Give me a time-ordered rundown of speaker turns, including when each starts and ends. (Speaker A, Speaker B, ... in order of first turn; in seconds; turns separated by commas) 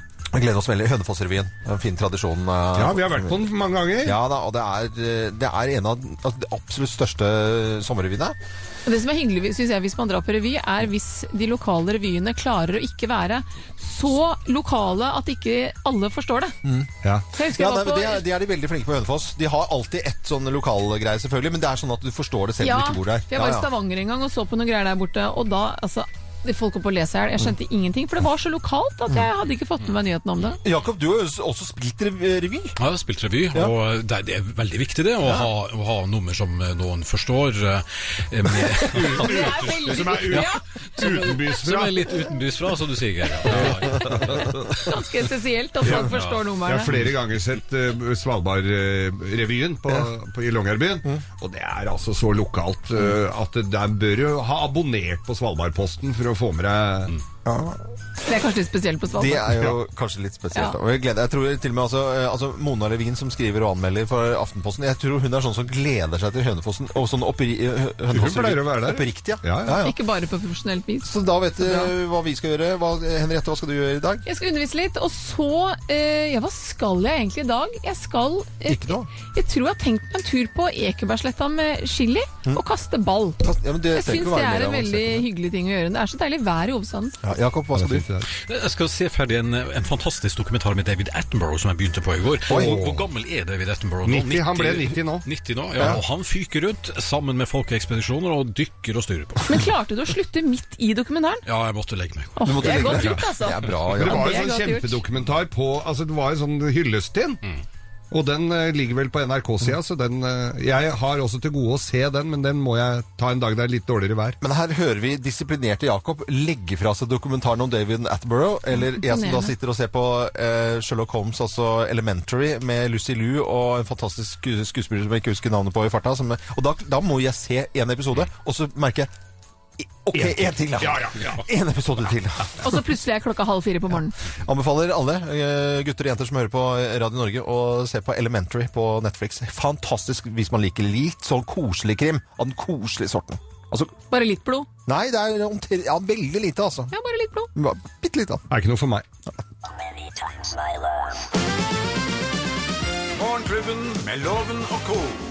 Speaker A: 0.3-3.4, Speaker B: 2.7-4.2, Speaker A: 4.0-8.3, Speaker C: 8.8-16.6, Speaker A: 16.6-16.9, Speaker C: 17.3-18.2, Speaker A: 17.4-23.7, Speaker C: 22.6-30.6, Speaker A: 30.6-32.8, Speaker D: 32.8-44.6, Speaker A: 35.2-35.5, Speaker B: 38.9-42.0, Speaker C: 39.1-41.2, Speaker B: 43.5-44.6, Speaker C: 44.8-46.9, Speaker B: 45.8-46.1, Speaker D: 45.9-46.4, Speaker B: 46.6-57.1, Speaker A: 57.4-57.9, Speaker C: 58.2-59.6, Speaker A: 59.1-69.9, Speaker B: 68.1-69.8, Speaker C: 69.8-71.9, Speaker A: 71.0-74.2, Speaker C: 74.2-83.4, Speaker A: 78.7-79.1, Speaker A: 83.4-85.3, Speaker C: 83.9-87.2, Speaker A: 87.2-88.0, Speaker B: 87.7-88.3, Speaker D: 88.5-99.7, Speaker A: 92.5-92.8, Speaker B: 92.5-93.0, Speaker B: 94.0-95.2, Speaker C: 99.4-101.4, Speaker D: 101.5-102.9, Speaker C: 102.3-105.0, Speaker A: 102.5-104.5, Speaker B: 103.9-107.4, Speaker B: 108.1-114.4, Speaker A: 114.4-129.1, Speaker C: 118.8-119.5, Speaker A: 129.8-132.8, Speaker B: 130.1-131.4, Speaker C: 132.6-134.2, Speaker A: 134.4-143.9, Speaker C: 144.1-144.7, Speaker A: 144.8-146.9, Speaker C: 146.9-147.5, Speaker A: 147.5-148.4, Speaker B: 148.5-149.0, Speaker E: 153.2-155.2